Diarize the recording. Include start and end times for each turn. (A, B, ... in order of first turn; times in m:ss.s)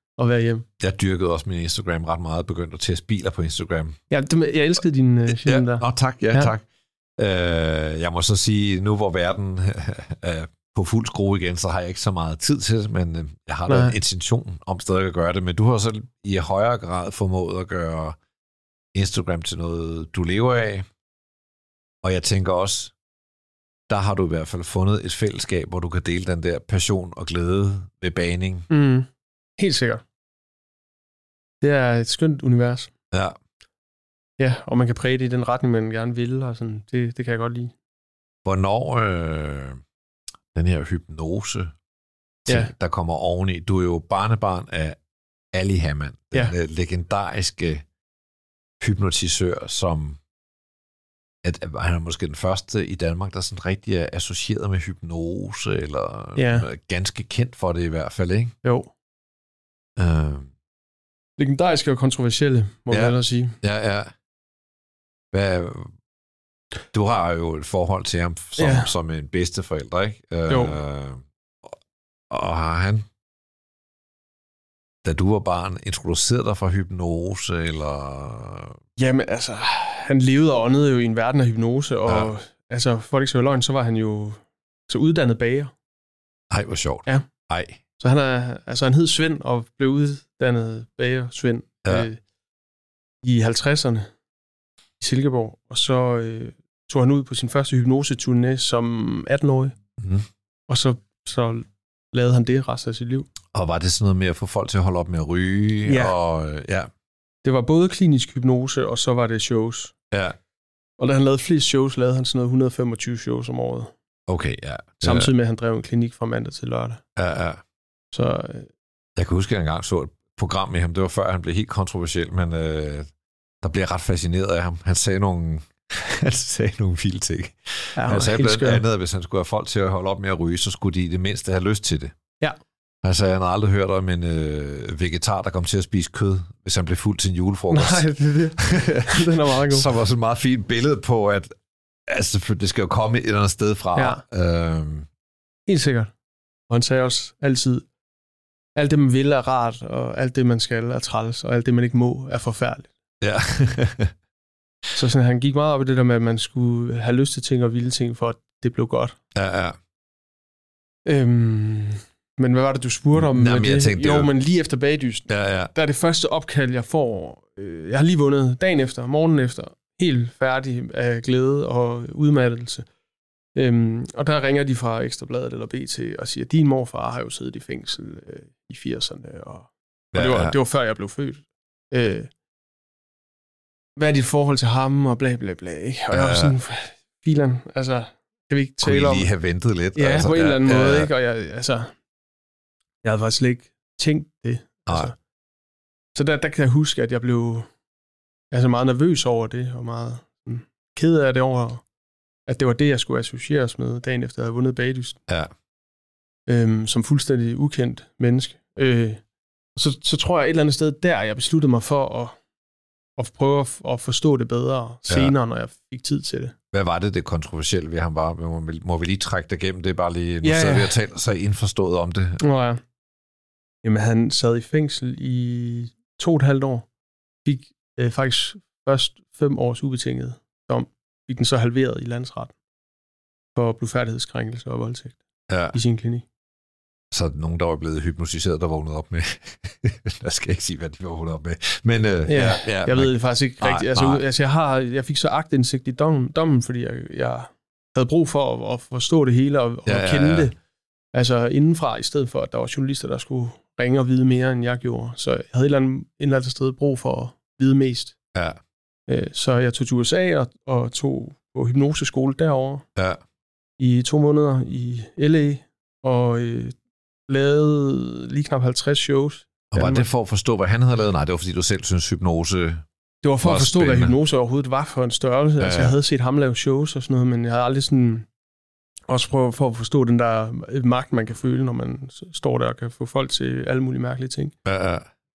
0:00.2-0:00.6 A
0:00.8-0:04.0 B
0:04.1-0:06.5 A
0:05.3-0:06.6 B
0:07.2-0:18.2 B
0:13.7-0:14.0 A
0:18.9-0:20.8 B
0:22.0-0:22.9 B
0:23.9-0:28.7 B
0:28.7-0:30.0 A
0:31.6-0:32.9 A
0:33.1-0:33.4 B
0:34.4-0:37.7 A
0:38.4-0:39.8 B
0:40.5-0:41.7 B
0:42.4-0:45.0 B
0:45.5-0:47.8 B
0:48.8-0:50.2 B
0:51.4-0:58.5 B
0:56.4-0:56.7 A
0:58.6-0:58.9 A
1:00.0-1:00.5 B
1:01.4-1:03.6 A
1:02.9-1:04.1 B
1:05.3-1:05.9 B
1:06.9-1:11.8 B
1:08.6-1:08.9 A
1:10.5-1:10.8 A
1:12.3-1:13.0 B
1:15.0-1:18.8 B
1:19.0-1:25.7 A
1:26.5-1:27.8 B
1:28.0-1:32.2 A
1:33.2-1:34.1 A
1:35.0-1:39.7 A
1:40.0-1:40.2 B
1:40.7-1:43.3 A
1:43.5-1:46.9 B
1:45.8-1:46.1 A
1:47.4-1:49.9 A
1:50.1-1:50.4 B
1:51.0-1:53.9 A
1:54.3-1:55.3 B
1:55.0-1:57.0 A
1:57.2-1:57.6 B
1:58.1-1:58.7 A
1:59.2-2:03.1 B
2:03.6-2:12.1 B
2:08.0-2:08.8 A
2:13.0-2:18.0 B
2:17.7-2:19.9 A
2:18.6-2:21.5 B
2:22.1-2:25.1 B
2:24.0-2:24.2 A
2:25.7-2:26.1 A
2:26.7-2:27.8 A
2:28.8-2:32.9 A
2:33.2-2:34.1 B
2:34.9-2:39.2 A
2:39.3-2:39.8 B
2:41.0-2:52.8 A
2:43.1-2:44.3 B
2:45.3-2:45.7 B
2:53.5-3:02.3 A
3:00.1-3:00.5 B
3:04.0-3:09.3 A
3:06.1-3:06.6 B
3:08.8-3:11.1 B
3:09.9-3:11.9 A
3:13.0-3:15.2 A
3:14.9-3:15.1 B
3:16.1-3:17.7 A
3:18.5-3:21.8 A
3:22.5-3:25.2 A
3:26.5-3:29.2 A
3:29.7-3:32.3 A
3:33.2-3:36.5 A
3:35.1-3:35.3 B
3:36.7-3:42.4 B
3:40.4-3:41.0 A
3:42.4-3:42.8 A
3:43.8-3:46.9 A
3:47.4-3:52.5 A
3:53.5-3:55.2 A
3:55.5-3:55.8 B
3:55.7-3:56.2 A
3:57.1-4:04.2 B
4:02.3-4:10.5 A
4:09.8-4:10.5 B
4:11.1-4:18.1 A
4:18.3-4:18.6 B
4:19.1-4:22.8 A
4:23.0-4:23.2 B
4:23.8-4:26.7 A
4:27.3-4:30.1 A
4:29.7-4:32.8 B
4:33.2-4:38.2 A
4:33.4-4:34.1 B
4:35.6-4:36.0 B
4:39.1-4:44.5 A
4:44.6-4:45.1 B